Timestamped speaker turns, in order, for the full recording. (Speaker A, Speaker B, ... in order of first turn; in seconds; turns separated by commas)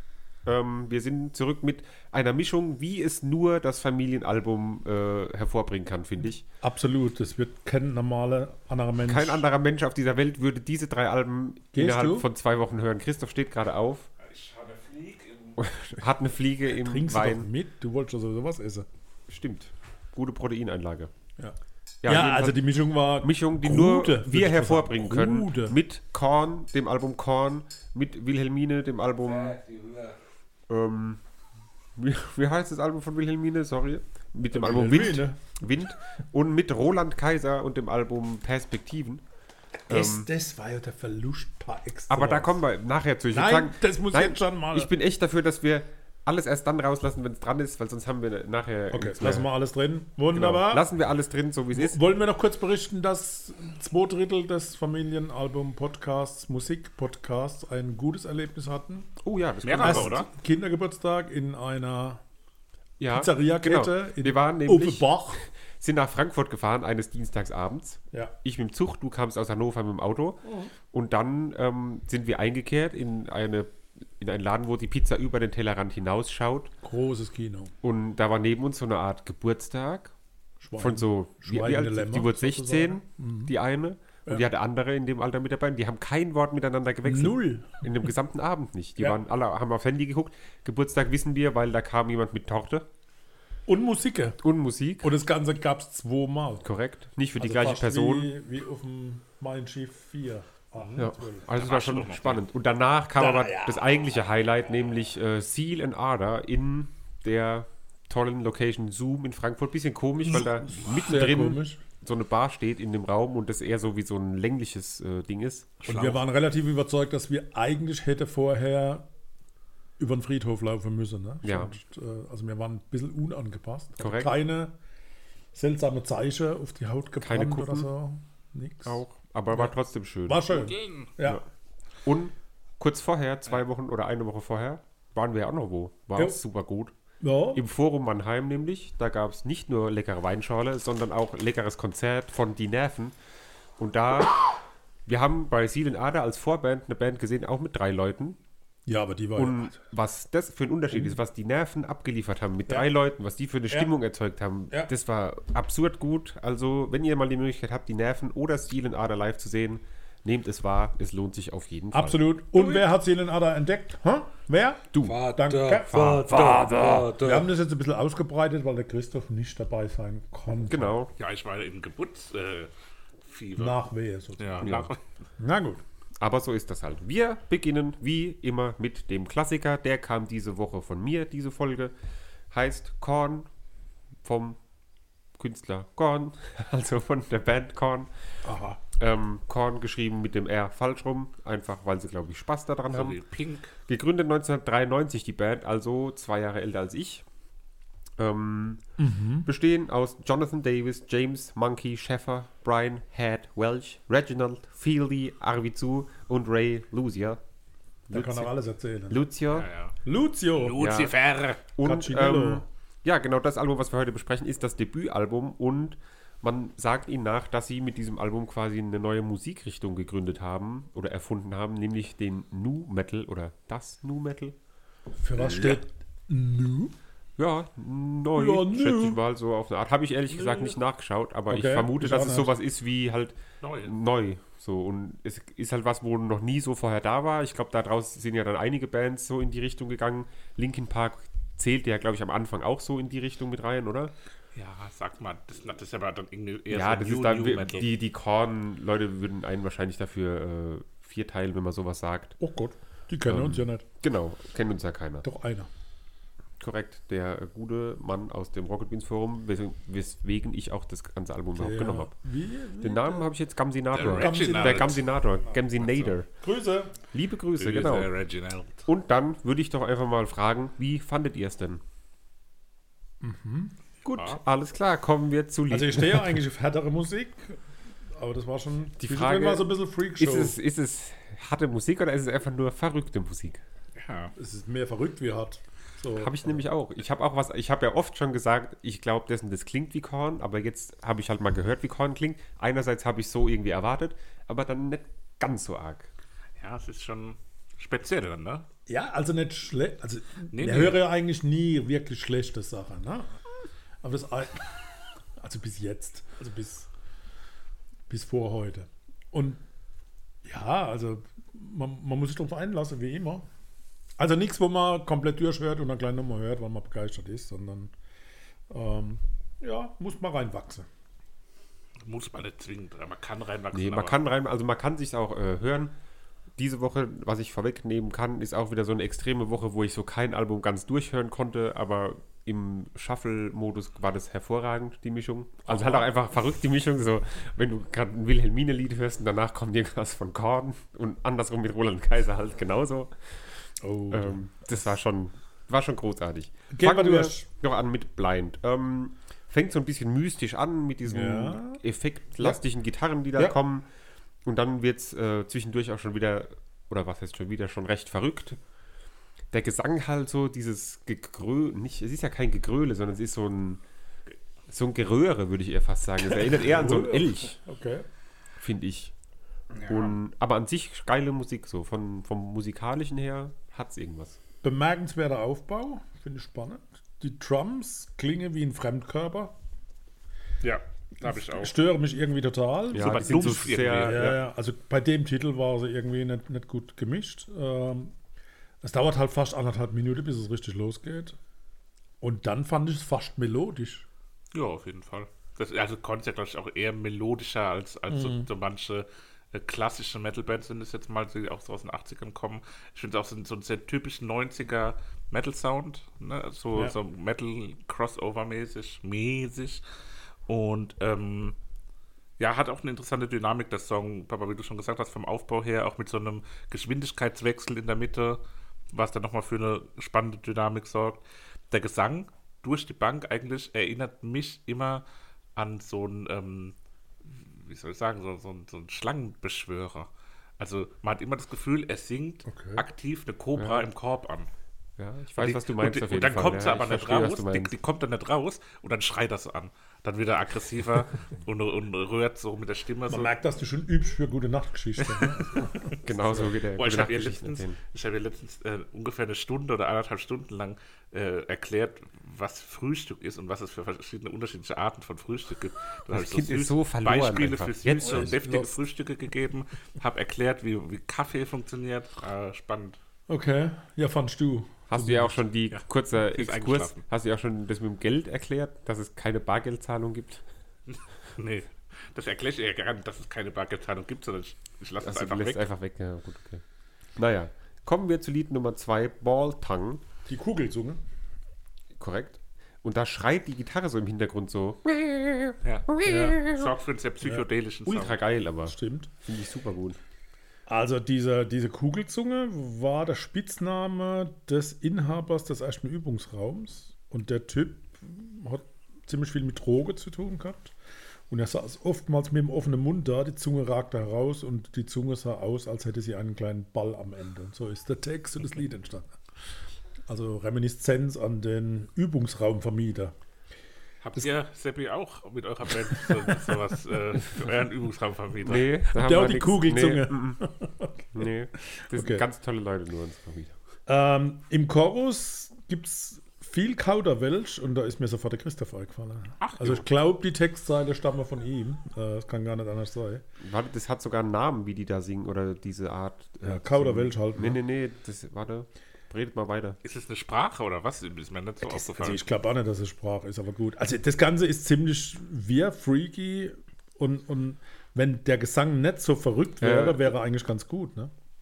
Speaker A: 0.5-6.5, Speaker B: 6.6-9.5, Speaker A: 9.0-14.1, Speaker B: 11.7-12.3, Speaker C: 14.2-15.7, Speaker A: 15.6-17.5, Speaker B: 16.7-18.9, Speaker A: 19.3-21.1, Speaker B: 21.4-25.8, Speaker A: 22.0-29.8, Speaker A: 30.7-31.2, Speaker A: 32.0-39.2, Speaker B: 34.5-35.6, Speaker B: 39.9-42.6, Speaker A: 39.9-40.3, Speaker A: 42.1-49.5, Speaker B: 43.3-44.9, Speaker B: 48.9-50.9, Speaker A: 50.3-52.0, Speaker B: 51.7-59.1, Speaker A: 59.2-60.2, Speaker C: 59.6-60.3, Speaker B: 59.8-62.2, Speaker A: 63.0-76.7, Speaker B: 63.1-65.4, Speaker B: 70.4-70.7, Speaker B: 76.8-77.7, Speaker A: 77.8-80.1, Speaker B: 80.6-83.5, Speaker A: 80.8-92.9, Speaker B: 87.0-87.9, Speaker B: 93.7-94.4, Speaker A: 94.4-95.1, Speaker B: 95.0-96.7, Speaker A: 96.6-98.3, Speaker B: 97.4-101.5, Speaker C: 100.8-102.4, Speaker A: 101.0-115.8, Speaker B: 103.2-103.8, Speaker B: 110.3-111.8, Speaker C: 115.8-116.2, Speaker B: 115.9-119.1, Speaker B: 120.0-124.8, Speaker A: 121.4-121.7, Speaker A: 124.0-124.4, Speaker B: 125.5-129.7, Speaker A: 127.2-127.9, Speaker A: 128.8-130.6, Speaker B: 130.3-131.4, Speaker C: 130.5-131.1, Speaker A: 132.1-136.9, Speaker B: 137.2-137.6, Speaker A: 137.5-143.2, Speaker A: 143.8-144.5, Speaker A: 145.1-148.4, Speaker B: 148.9-149.8, Speaker A: 149.3-162.9, Speaker B: 150.9-151.2, Speaker B: 161.9-171.0, Speaker A: 164.9-167.2, Speaker A: 170.7-171.1, Speaker C: 171.2-172.7, Speaker C: 173.2-173.8, Speaker B: 173.6-175.8, Speaker C: 174.4-175.0, Speaker A: 174.6-174.9, Speaker A: 176.2-181.9, Speaker A: 182.5-183.5, Speaker A: 184.2-184.6, Speaker A: 185.4-188.1, Speaker B: 188.4-188.8, Speaker A: 188.9-193.2, Speaker C: 192.9-193.7, Speaker A: 193.9-197.2, Speaker A: 198.2-198.8, Speaker B: 199.0-199.5, Speaker A: 199.4-207.4, Speaker A: 208.1-208.5, Speaker B: 208.1-209.3, Speaker A: 209.1-209.7, Speaker C: 209.5-210.0, Speaker B: 210.1-210.8, Speaker C: 210.6-211.6, Speaker A: 210.8-211.2, Speaker A: 211.8-224.6, Speaker B: 211.8-212.7, Speaker B: 225.2-226.9, Speaker A: 225.4-225.8, Speaker A: 227.4-244.1, Speaker B: 228.4-229.2, Speaker C: 230.3-230.7, Speaker B: 231.5-232.5, Speaker C: 233.6-233.9, Speaker C: 244.6-247.9, Speaker A: 246.7-252.4, Speaker B: 252.4-253.9, Speaker A: 253.2-255.2, Speaker B: 255.2-255.7, Speaker A: 256.6-262.1, Speaker B: 261.6-263.3, Speaker A: 262.8-266.3, Speaker C: 263.9-265.2, Speaker B: 264.0-265.0, Speaker C: 265.8-266.1, Speaker B: 266.4-266.9, Speaker A: 267.1-268.1, Speaker C: 267.6-268.9, Speaker A: 268.9-271.8, Speaker B: 273.2-273.7, Speaker A: 274.1-276.4, Speaker C: 274.1-274.4, Speaker B: 275.7-277.6, Speaker B: 278.1-280.6, Speaker A: 279.0-283.6, Speaker C: 284.0-284.3, Speaker B: 284.4-286.6, Speaker A: 286.2-296.1, Speaker C: 296.6-298.7, Speaker B: 298.9-303.4, Speaker C: 300.5-301.1, Speaker B: 304.0-304.7, Speaker B: 305.4-306.9, Speaker B: 308.1-309.6, Speaker B: 310.4-313.5, Speaker B: 314.2-317.9, Speaker B: 318.7-320.9, Speaker C: 322.0-324.2, Speaker A: 323.7-325.9, Speaker A: 326.6-353.9, Speaker C: 335.7-336.0, Speaker B: 343.8-344.4, Speaker B: 346.7-347.5, Speaker B: 351.1-351.8, Speaker A: 354.4-358.6, Speaker A: 359.5-363.8, Speaker A: 364.7-367.6, Speaker B: 366.6-368.1, Speaker A: 368.6-369.1, Speaker C: 369.8-370.1, Speaker A: 369.9-374.4, Speaker B: 374.6-379.6, Speaker C: 380.6-381.8, Speaker B: 381.2-388.1, Speaker A: 382.9-384.4, Speaker C: 382.9-384.2, Speaker B: 388.8-391.4, Speaker B: 392.2-394.1, Speaker C: 394.5-409.8, Speaker B: 398.1-398.5, Speaker C: 410.5-411.6, Speaker C: 412.4-418.4, Speaker C: 418.9-425.0, Speaker C: 425.6-430.1, Speaker C: 430.6-434.5, Speaker B: 432.5-432.8, Speaker A: 433.6-433.9, Speaker A: 435.0-437.8, Speaker C: 435.4-443.3, Speaker B: 443.1-445.9, Speaker C: 445.0-463.0, Speaker A: 445.9-447.8, Speaker A: 456.1-458.4, Speaker B: 458.0-458.7, Speaker B: 463.3-465.4, Speaker A: 464.9-470.4, Speaker C: 465.7-467.0, Speaker C: 470.9-475.6, Speaker A: 475.0-476.6, Speaker A: 477.2-480.0, Speaker B: 480.3-481.0, Speaker A: 482.0-486.7, Speaker C: 485.6-488.2, Speaker B: 486.0-486.4, Speaker A: 487.9-490.0, Speaker B: 488.7-489.1, Speaker B: 490.7-500.7, Speaker B: 501.3-509.2, Speaker B: 510.1-513.1, Speaker C: 514.0-518.7, Speaker B: 515.9-516.5, Speaker A: 518.4-520.4, Speaker B: 519.0-522.2, Speaker A: 521.1-523.5, Speaker B: 523.9-533.2, Speaker C: 529.4-529.8, Speaker A: 533.4-539.8, Speaker B: 536.4-537.6, Speaker C: 539.8-542.2, Speaker B: 541.6-551.1, Speaker A: 549.6-550.1